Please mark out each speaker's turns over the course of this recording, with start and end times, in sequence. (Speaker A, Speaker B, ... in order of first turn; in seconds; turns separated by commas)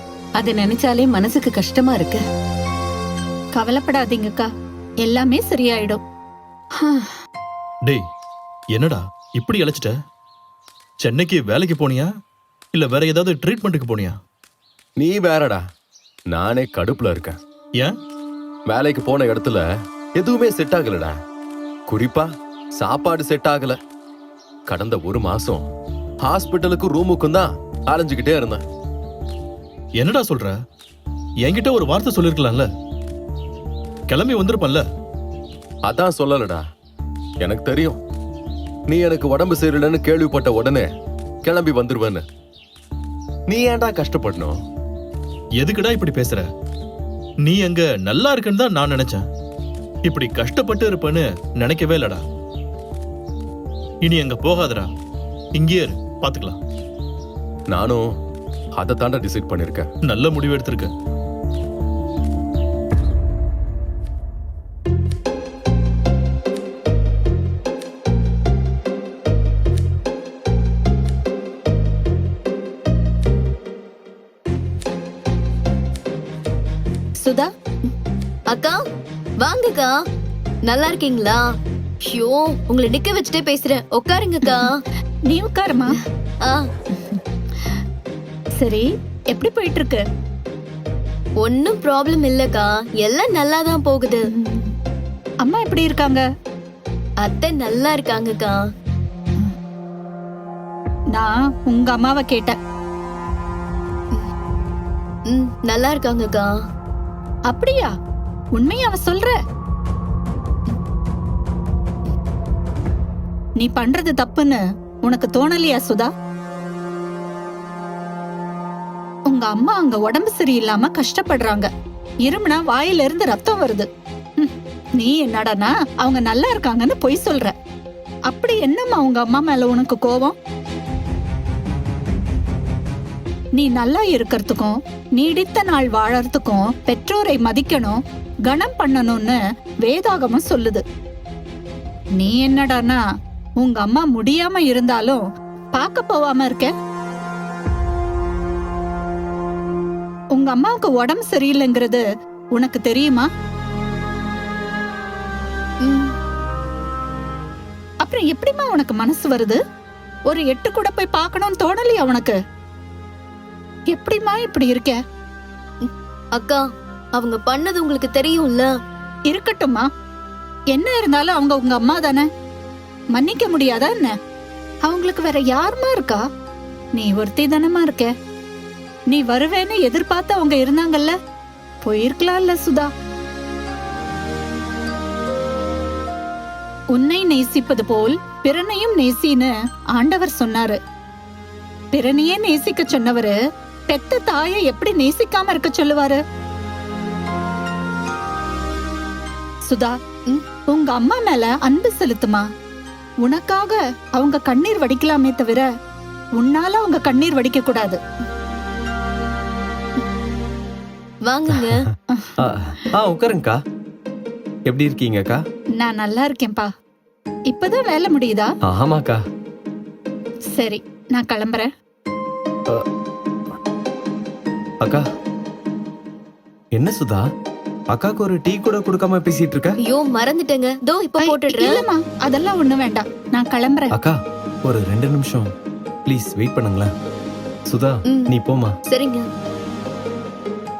Speaker A: 0.4-2.2, Speaker B: 3.5-4.5, Speaker B: 5.0-6.0, Speaker A: 6.8-7.1, Speaker C: 8.7-9.9, Speaker C: 11.0-12.1, Speaker C: 12.7-14.2, Speaker D: 15.0-15.6, Speaker D: 16.3-17.4, Speaker D: 18.7-21.2, Speaker D: 21.9-23.8, Speaker D: 24.7-25.6, Speaker D: 26.2-28.6, Speaker C: 30.0-30.6, Speaker C: 31.4-32.7, Speaker C: 34.1-34.8, Speaker D: 35.8-36.6, Speaker D: 37.4-38.0, Speaker D: 38.9-40.9, Speaker D: 41.4-42.2, Speaker D: 43.5-44.6, Speaker C: 45.6-46.5, Speaker C: 47.4-49.2, Speaker C: 50.0-52.2, Speaker C: 54.0-54.9, Speaker C: 55.5-56.6, Speaker D: 57.7-58.0, Speaker D: 58.7-59.9, Speaker C: 60.0-60.9, Speaker B: 77.2-77.5, Speaker E: 78.5-78.8, Speaker E: 79.4-79.9, Speaker E: 80.6-81.4, Speaker E: 82.1-84.7, Speaker B: 85.3-86.0, Speaker B: 88.6-90.0, Speaker E: 91.4-94.2, Speaker B: 94.3-94.7, Speaker B: 95.4-96.2, Speaker E: 97.2-98.6, Speaker B: 101.1-102.5, Speaker E: 105.3-106.5, Speaker B: 107.5-107.9, Speaker B: 108.5-109.3, Speaker B: 113.6-116.1, Speaker B: 119.3-121.7, Speaker B: 122.2-123.9, Speaker B: 124.4-127.5, Speaker B: 128.3-130.3, Speaker B: 133.6-140.8, Speaker B: 142.2-143.0, Speaker B: 143.6-145.2, Speaker B: 145.7-146.7, Speaker B: 150.3-153.3, Speaker E: 155.8-156.1, Speaker B: 158.0-159.6, Speaker B: 160.3-162.3, Speaker B: 163.9-165.0, Speaker E: 165.8-166.6, Speaker E: 167.2-168.7, Speaker B: 169.3-169.9, Speaker B: 170.7-172.2, Speaker B: 173.1-174.1, Speaker B: 174.8-176.2, Speaker B: 176.9-178.1, Speaker B: 179.1-181.1, Speaker B: 181.8-182.9, Speaker B: 186.9-190.8, Speaker B: 191.9-193.3, Speaker B: 193.9-196.2, Speaker B: 199.7-199.9, Speaker B: 200.7-202.4, Speaker B: 203.2-205.7, Speaker B: 206.4-208.0, Speaker E: 211.2-211.8, Speaker B: 212.1-212.4, Speaker F: 212.4-213.6, Speaker F: 214.7-215.4, Speaker B: 215.8-216.7, Speaker B: 217.5-218.5, Speaker F: 218.7-219.2, Speaker B: 220.5-221.7, Speaker F: 226.7-227.2, Speaker F: 227.9-229.8, Speaker E: 229.8-231.7, Speaker B: 231.2-233.9, Speaker F: 233.9-235.5, Speaker F: 236.1-236.9, Speaker F: 237.7-238.7, Speaker E: 238.9-239.2